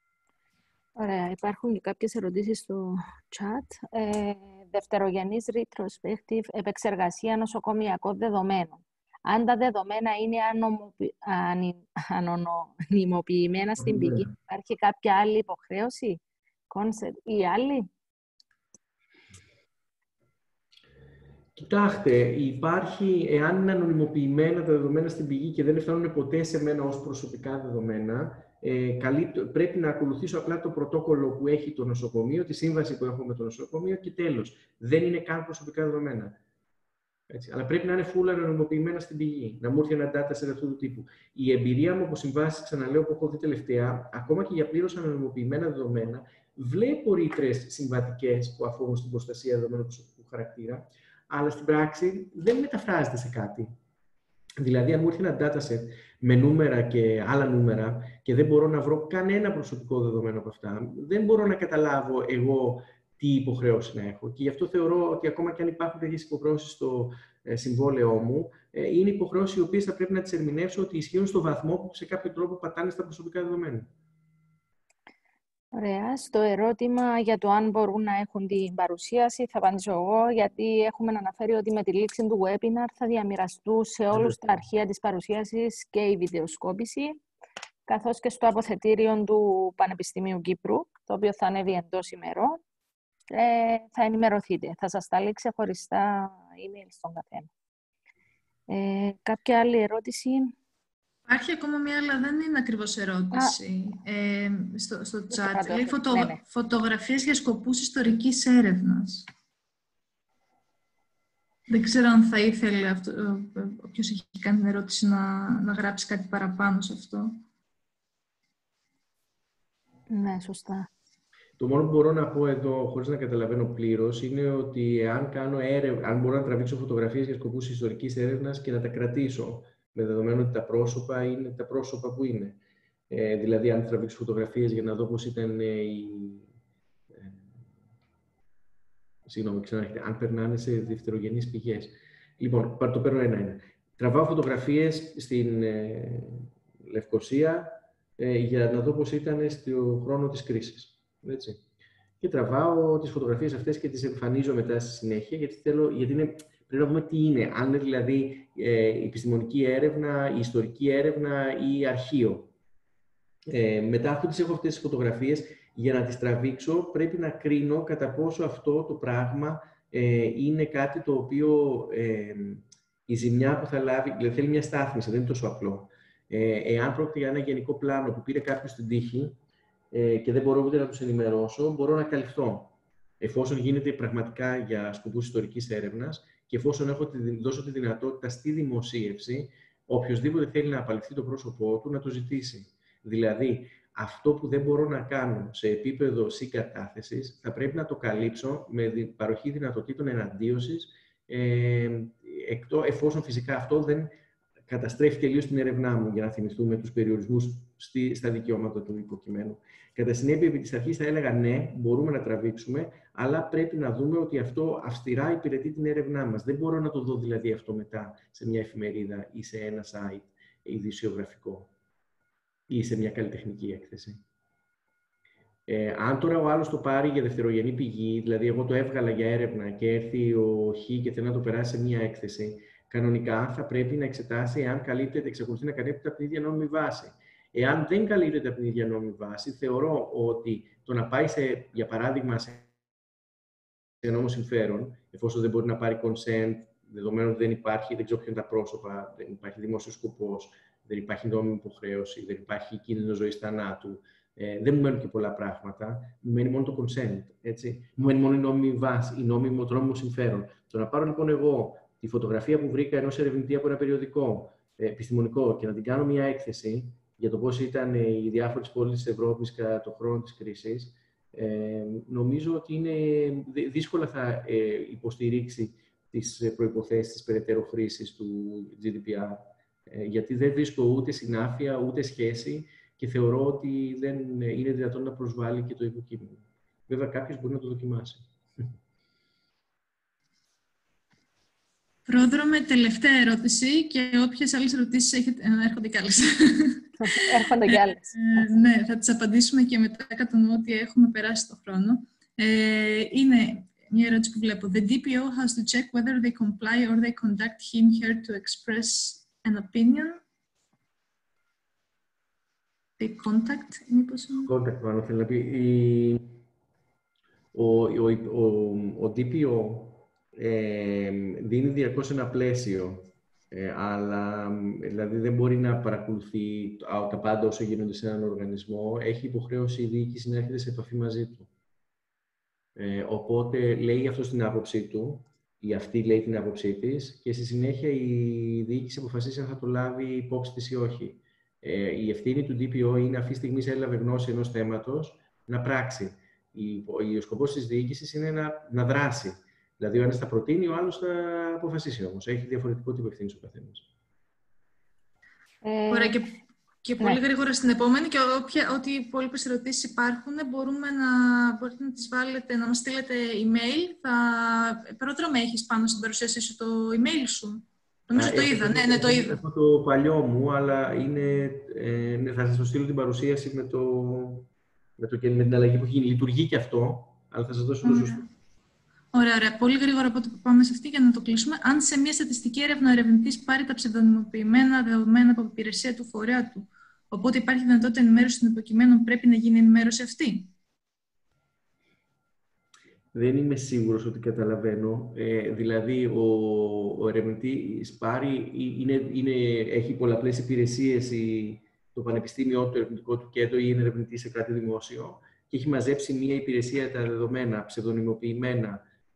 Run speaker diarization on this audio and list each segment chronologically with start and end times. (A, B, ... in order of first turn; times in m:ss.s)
0:01.0-0:17.9 A
0:13.8-0:14.3 B
0:21.5-0:36.4 B
0:37.3-0:53.7 B
0:54.6-1:13.9 B
1:15.7-1:27.2 A
1:27.9-1:32.6 A
1:33.3-1:37.5 A
1:38.7-1:40.5 A
1:41.3-1:49.2 C
1:45.3-1:46.4 A
1:51.7-1:57.4 C
2:00.1-2:00.9 A
2:01.6-2:16.5 B
2:17.1-2:17.5 B
2:19.2-2:31.6 B
2:32.2-2:42.5 B
2:43.5-2:59.4 B
2:59.9-3:24.1 B
3:24.7-3:41.7 B
3:42.7-3:44.2 B
3:45.7-4:02.7 B
4:04.0-4:48.3 B
4:52.0-5:10.2 C
4:57.0-4:58.1 A
5:13.0-5:14.5 C
5:14.4-5:16.3 B
5:17.5-5:31.5 B
5:32.8-5:53.8 B
5:55.6-5:56.2 A
5:55.9-6:09.4 C
6:08.1-6:18.2 B
6:17.8-6:18.3 C
6:19.1-6:30.5 C
6:33.1-6:48.8 B